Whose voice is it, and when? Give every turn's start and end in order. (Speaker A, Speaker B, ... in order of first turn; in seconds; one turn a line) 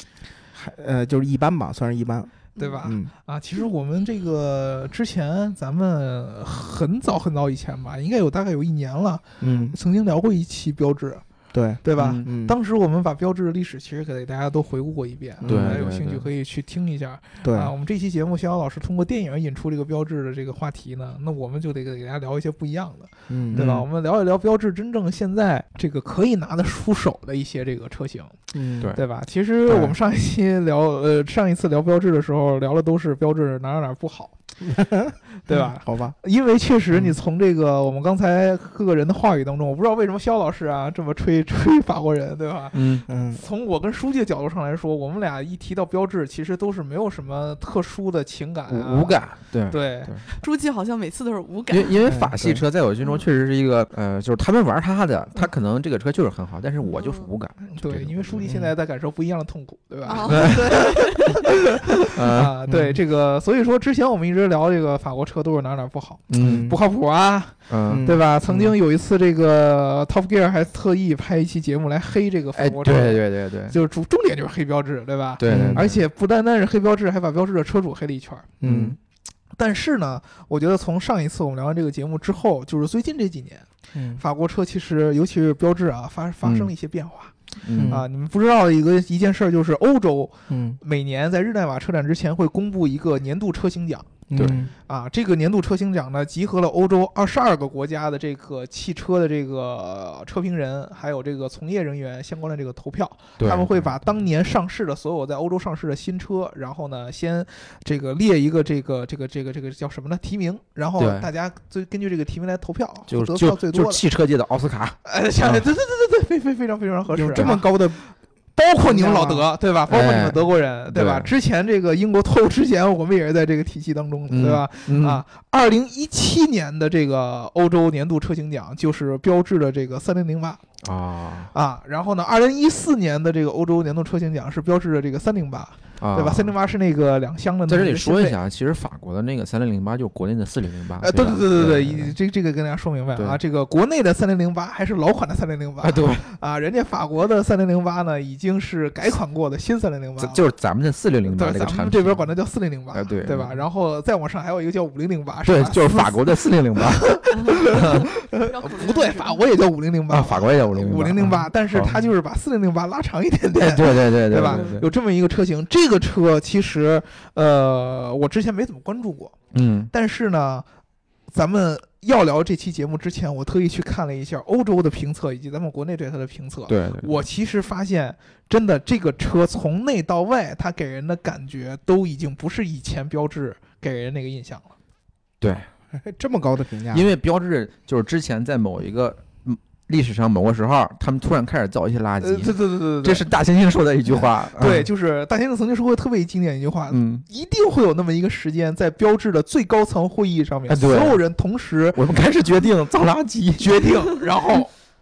Speaker A: 0.6-3.1
Speaker B: 2.6-2.9
Speaker C: 2.6-11.2
Speaker A: 9.4-9.8
Speaker A: 11.5-12.6
Speaker C: 11.8-28.4
Speaker D: 12.0-12.2
Speaker A: 15.4-15.8
Speaker D: 15.4-16.3
Speaker A: 17.4-17.7
Speaker A: 23.3-23.7
Speaker D: 23.5-23.9
Speaker A: 28.5-28.9
Speaker C: 28.9-34.3
Speaker A: 29.7-29.9
Speaker A: 34.6-36.1
Speaker C: 35.5-50.2
Speaker D: 42.7-43.0
Speaker A: 43.1-43.4
Speaker D: 48.7-50.2
Speaker B: 50.4-52.1
Speaker D: 51.7-58.5
Speaker A: 52.1-52.6
Speaker B: 53.0-53.3
Speaker B: 56.8-57.3
Speaker C: 57.7-78.5
Speaker B: 60.0-61.5
Speaker D: 60.3-60.6
Speaker D: 62.1-62.5
Speaker A: 62.7-63.0
Speaker D: 66.3-66.7
Speaker A: 66.4-66.8
Speaker D: 67.7-68.1
Speaker A: 67.9-68.7
Speaker D: 72.6-73.8
Speaker D: 75.4-76.0
Speaker A: 75.5-75.9
Speaker A: 78.6-79.0
Speaker D: 78.6-79.0
Speaker C: 79.6-83.7
Speaker A: 83.9-84.2
Speaker C: 84.2-87.3
Speaker D: 86.4-86.7
Speaker D: 87.6-88.0
Speaker A: 87.7-88.0
Speaker C: 87.9-94.2
Speaker A: 90.5-90.8
Speaker A: 94.3-94.7
Speaker D: 94.3-94.6
Speaker C: 94.9-114.0
Speaker D: 103.4-104.1
Speaker D: 111.0-111.3
Speaker D: 113.1-115.6
Speaker C: 115.0-117.6
Speaker A: 117.1-118.0
Speaker C: 118.6-130.6
Speaker A: 118.8-119.5
Speaker D: 119.9-121.3
Speaker D: 124.3-125.2
Speaker D: 130.8-131.5
Speaker C: 131.5-138.4
Speaker D: 136.0-136.5
Speaker D: 137.7-142.2
Speaker C: 141.0-150.4
Speaker D: 145.8-146.3
Speaker D: 150.2-152.3
Speaker C: 151.3-169.4
Speaker D: 152.9-153.6
Speaker D: 155.5-158.1
Speaker B: 157.3-159.4
Speaker D: 160.1-162.0
Speaker D: 163.6-164.9
Speaker B: 164.4-164.8
Speaker D: 169.5-169.9
Speaker C: 169.9-170.7
Speaker C: 171.3-184.8
Speaker D: 176.7-177.1
Speaker D: 185.4-185.7
Speaker A: 185.9-187.1
Speaker D: 186.9-194.9
Speaker C: 192.2-193.3
Speaker C: 194.1-202.0
Speaker D: 196.9-197.2
Speaker D: 200.7-201.2
Speaker D: 201.9-204.0
Speaker C: 203.6-204.7